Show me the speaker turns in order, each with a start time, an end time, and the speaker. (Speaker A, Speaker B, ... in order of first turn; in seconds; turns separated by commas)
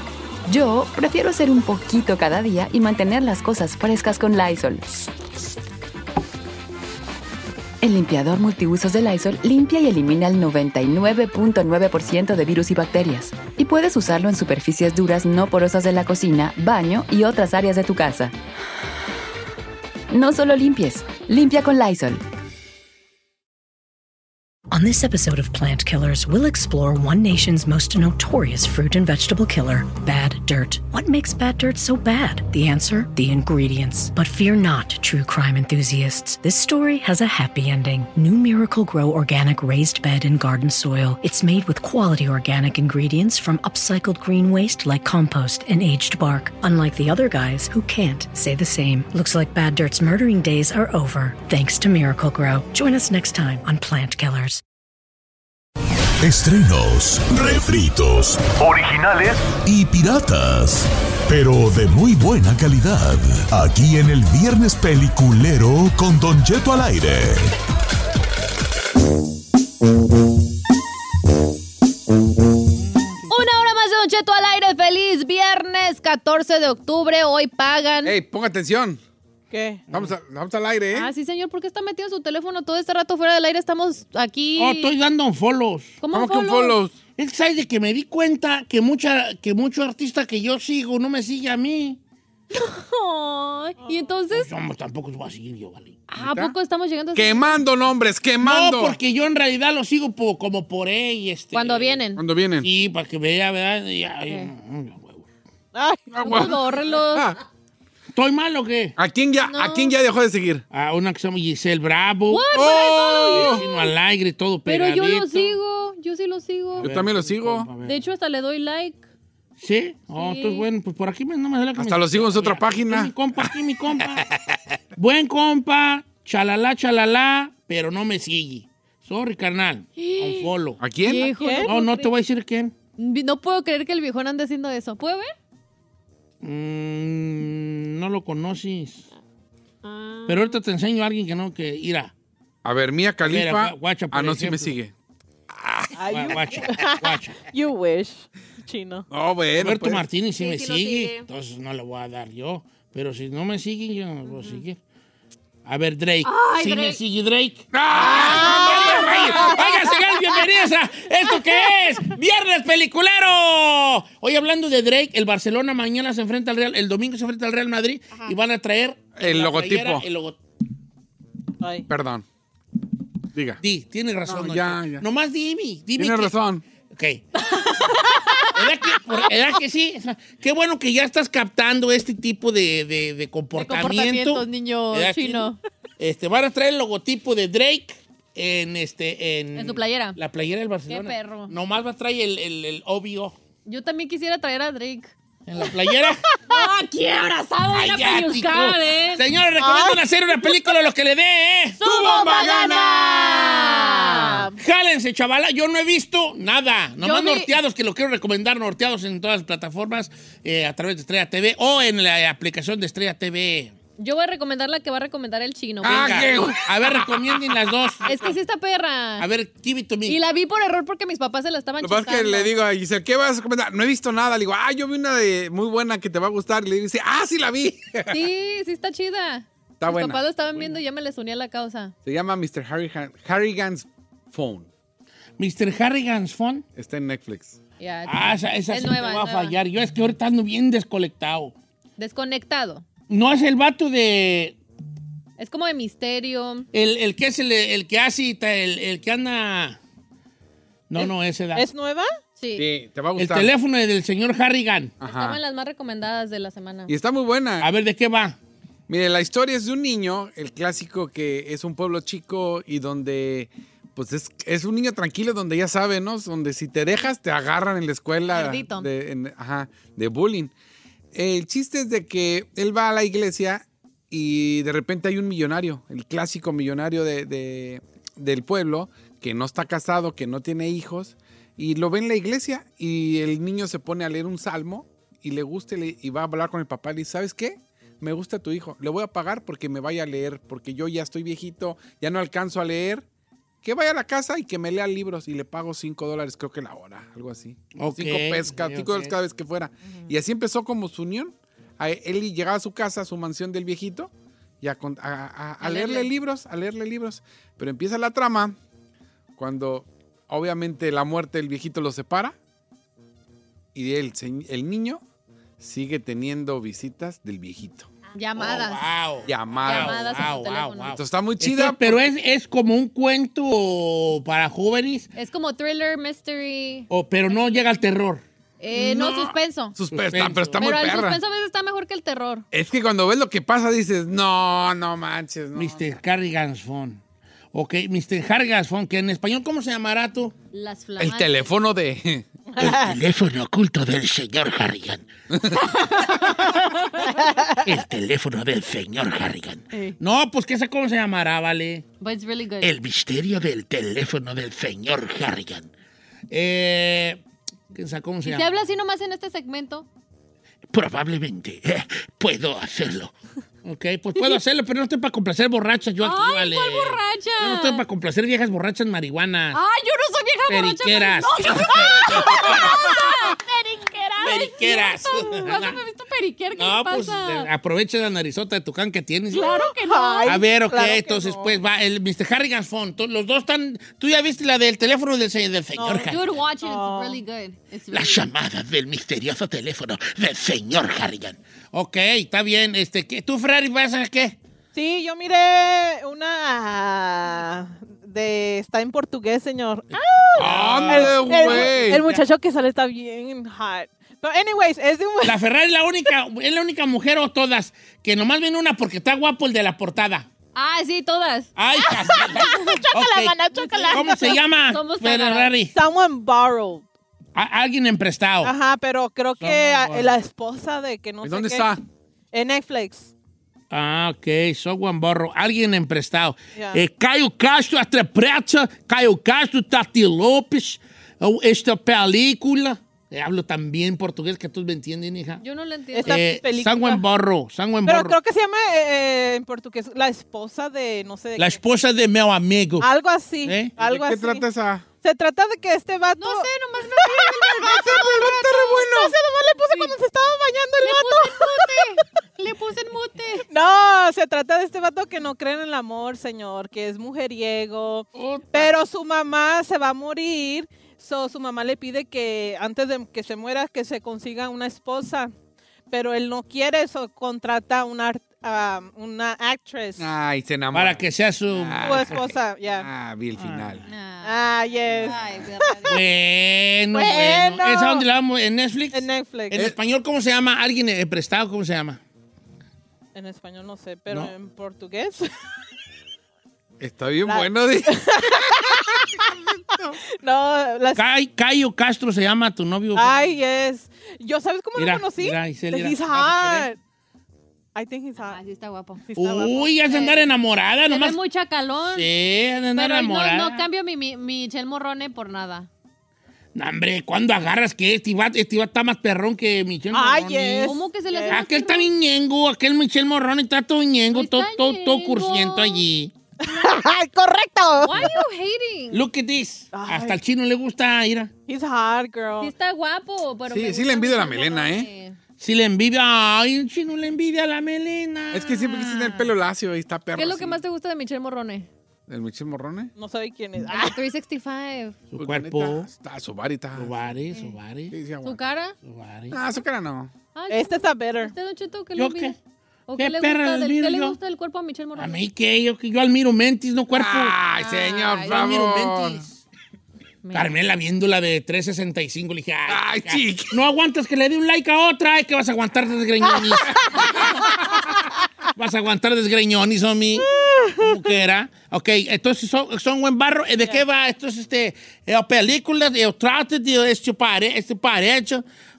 Speaker A: 0.5-5.0, Speaker A: 7.8-18.3, Speaker A: 20.1-22.2, Speaker B: 24.7-54.6, Speaker C: 56.2-67.5, Speaker D: 72.9-73.3, Speaker E: 73.3-78.1, Speaker F: 78.0-79.0, Speaker G: 79.5-79.8, Speaker F: 79.9-81.1, Speaker E: 80.9-84.9, Speaker D: 84.5-86.0, Speaker E: 86.0-86.8, Speaker F: 86.1-86.9, Speaker D: 87.2-92.0, Speaker E: 92.5-94.5, Speaker D: 94.3-96.0, Speaker E: 96.1-97.6, Speaker F: 96.2-96.5, Speaker F: 97.1-99.0, Speaker D: 98.4-102.0, Speaker E: 101.5-102.2, Speaker F: 102.1-102.7, Speaker D: 102.6-105.2, Speaker G: 105.7-106.5, Speaker F: 106.1-107.4, Speaker E: 106.2-107.3, Speaker D: 108.1-109.0, Speaker F: 109.0-110.6, Speaker E: 109.4-109.9, Speaker D: 110.7-112.5, Speaker E: 112.3-113.9, Speaker F: 112.5-113.6, Speaker D: 113.3-115.6, Speaker E: 114.7-116.9, Speaker F: 116.8-117.7, Speaker D: 116.8-118.0, Speaker E: 117.8-119.0, Speaker D: 119.6-130.8, Speaker E: 120.1-120.7, Speaker F: 121.8-123.5, Speaker E: 130.0-132.1, Speaker F: 130.8-131.3, Speaker G: 131.2-131.7, Speaker D: 131.6-132.7, Speaker E: 133.0-135.3, Speaker D: 136.4-139.1, Speaker E: 139.9-140.4, Speaker D: 140.2-142.1, Speaker F: 142.6-144.9, Speaker D: 143.2-144.8, Speaker F: 145.6-145.9, Speaker G: 146.0-149.1, Speaker D: 146.1-147.4, Speaker F: 149.1-150.0, Speaker D: 149.6-154.8, Speaker E: 150.4-151.2, Speaker D: 155.6-170.4, Speaker E: 156.2-157.0, Speaker F: 157.7-159.4, Speaker G: 158.1-159.6, Speaker E: 158.9-159.5, Speaker F: 169.2-170.1, Speaker G: 171.6-171.9, Speaker F: 171.9-172.2, Speaker F: 173.3-173.6, Speaker D: 173.6-176.3, Speaker F: 174.2-175.0, Speaker F: 176.0-176.6, Speaker D: 176.9-177.3, Speaker E: 177.5-178.5, Speaker D: 178.5-193.3, Speaker E: 183.5-185.6, Speaker E: 189.5-190.2, Speaker E: 190.9-191.5, Speaker E: 193.7-195.7, Speaker D: 195.4-196.3, Speaker E: 196.4-199.2, Speaker D: 197.7-202.9, Speaker G: 199.6-200.0, Speaker E: 201.8-204.5, Speaker F: 201.9-203.3, Speaker G: 203.9-204.6, Speaker D: 204.6-213.7, Speaker E: 207.0-207.5, Speaker E: 214.0-216.4, Speaker F: 215.8-217.4, Speaker D: 215.8-218.3, Speaker E: 218.0-219.2, Speaker D: 219.2-220.2, Speaker E: 220.1-222.5, Speaker F: 221.8-228.2, Speaker E: 228.1-231.9, Speaker F: 229.8-230.2, Speaker F: 232.1-234.7, Speaker D: 235.4-236.6, Speaker F: 236.8-237.6, Speaker E: 237.8-239.6, Speaker D: 238.1-241.5, Speaker E: 242.0-242.8, Speaker D: 243.1-244.6, Speaker E: 245.4-246.7, Speaker D: 246.7-249.8, Speaker D: 250.9-251.7, Speaker G: 250.9-252.1, Speaker E: 252.4-252.7, Speaker F: 252.5-253.5, Speaker D: 253.2-254.9, Speaker F: 255.0-255.4, Speaker E: 255.0-256.9, Speaker F: 256.9-257.7, Speaker D: 257.6-258.4, Speaker F: 258.9-270.5, Speaker E: 268.3-268.9, Speaker F: 271.1-293.0, Speaker F: 293.6-304.1, Speaker D: 297.7-299.2, Speaker F: 304.6-308.6, Speaker E: 305.6-306.1, Speaker F: 309.4-312.4, Speaker F: 313.7-315.0, Speaker F: 315.6-317.9, Speaker E: 318.1-318.8, Speaker D: 318.4-325.1, Speaker F: 319.2-320.1, Speaker E: 319.6-321.0, Speaker F: 320.9-322.0, Speaker E: 325.1-327.8, Speaker D: 326.9-328.2, Speaker E: 328.6-329.8, Speaker F: 328.8-331.2, Speaker D: 329.9-330.8, Speaker E: 330.6-332.4, Speaker F: 332.5-335.9, Speaker D: 335.5-337.0, Speaker D: 337.5-340.3, Speaker E: 340.5-341.5, Speaker F: 341.0-342.3, Speaker G: 342.6-342.9, Speaker D: 342.6-345.0, Speaker F: 345.3-345.6, Speaker E: 345.8-346.1, Speaker G: 347.2-347.6, Speaker D: 347.5-351.9, Speaker E: 352.0-352.7, Speaker D: 352.6-355.7, Speaker D: 356.3-357.2, Speaker D: 357.7-358.5, Speaker E: 358.2-359.9, Speaker D: 360.7-369.6, Speaker E: 364.1-364.4, Speaker E: 366.0-367.8, Speaker E: 369.5-377.5, Speaker D: 370.5-373.2, Speaker D: 374.2-375.8, Speaker D: 376.6-379.6, Speaker E: 379.3-380.4, Speaker G: 379.4-381.6, Speaker D: 380.2-386.3, Speaker G: 385.8-387.2, Speaker E: 386.1-388.2, Speaker D: 387.9-394.4, Speaker G: 394.7-405.4, Speaker D: 399.9-402.2, Speaker F: 400.3-402.0, Speaker D: 405.2-410.3, Speaker E: 410.5-411.5, Speaker D: 411.6-415.7, Speaker G: 411.8-414.4, Speaker E: 413.5-415.5, Speaker G: 415.7-416.9, Speaker D: 417.3-418.5, Speaker G: 418.4-421.7, Speaker D: 419.4-420.2, Speaker F: 421.2-421.8, Speaker G: 422.3-423.1, Speaker D: 423.7-435.4, Speaker G: 426.5-426.8, Speaker E: 435.4-436.4, Speaker G: 435.9-437.0, Speaker D: 436.0-438.2, Speaker G: 437.9-441.6, Speaker D: 441.4-442.9, Speaker G: 442.8-444.4, Speaker D: 443.4-443.7, Speaker F: 443.8-444.9, Speaker G: 445.0-451.8, Speaker E: 446.2-449.1, Speaker F: 447.7-449.1, Speaker E: 449.7-450.0, Speaker E: 450.8-453.4, Speaker G: 453.5-465.3, Speaker D: 458.2-458.7, Speaker G: 465.9-470.1, Speaker F: 470.0-473.8, Speaker D: 470.7-472.3, Speaker G: 471.8-472.9, Speaker D: 473.4-473.9, Speaker E: 473.9-476.0, Speaker G: 474.2-475.8, Speaker D: 475.9-482.0, Speaker G: 476.9-478.1, Speaker G: 478.9-479.6, Speaker G: 483.1-485.3, Speaker F: 486.8-488.6, Speaker G: 487.2-489.3, Speaker F: 489.1-490.0, Speaker G: 490.2-491.0, Speaker D: 490.9-493.3, Speaker G: 492.9-496.8, Speaker D: 494.8-496.7, Speaker G: 497.7-498.4, Speaker E: 498.2-499.0, Speaker G: 499.1-499.7, Speaker D: 499.1-501.2, Speaker E: 499.8-500.3, Speaker E: 500.9-502.1, Speaker D: 501.9-503.6, Speaker E: 502.7-505.7, Speaker D: 506.5-510.7, Speaker G: 509.9-511.4, Speaker E: 510.6-511.9, Speaker D: 511.3-516.1, Speaker E: 514.1-515.8, Speaker G: 516.4-518.2, Speaker E: 517.8-519.0, Speaker D: 518.9-521.3, Speaker G: 519.7-520.2, Speaker G: 521.5-522.5, Speaker E: 522.4-525.2, Speaker F: 523.5-524.9, Speaker D: 525.4-529.2, Speaker F: 528.3-530.6, Speaker E: 530.1-531.7, Speaker F: 532.1-532.9, Speaker G: 533.0-534.0, Speaker E: 533.7-535.0, Speaker D: 535.1-535.9, Speaker F: 535.2-537.0, Speaker D: 536.8-537.9, Speaker F: 537.9-538.4, Speaker E: 538.2-538.8, Speaker D: 538.8-539.4, Speaker F: 539.3-540.1, Speaker E: 540.3-542.3, Speaker G: 540.5-541.3, Speaker D: 542.0-542.3, Speaker E: 542.9-545.2, Speaker D: 543.0-544.2, Speaker D: 545.0-549.4, Speaker F: 546.9-549.2, Speaker E: 547.6-548.4, Speaker E: 550.2-550.5, Speaker D: 550.3-557.0, Speaker F: 552.7-553.6, Speaker D: 558.5-568.4, Speaker G: 560.2-560.9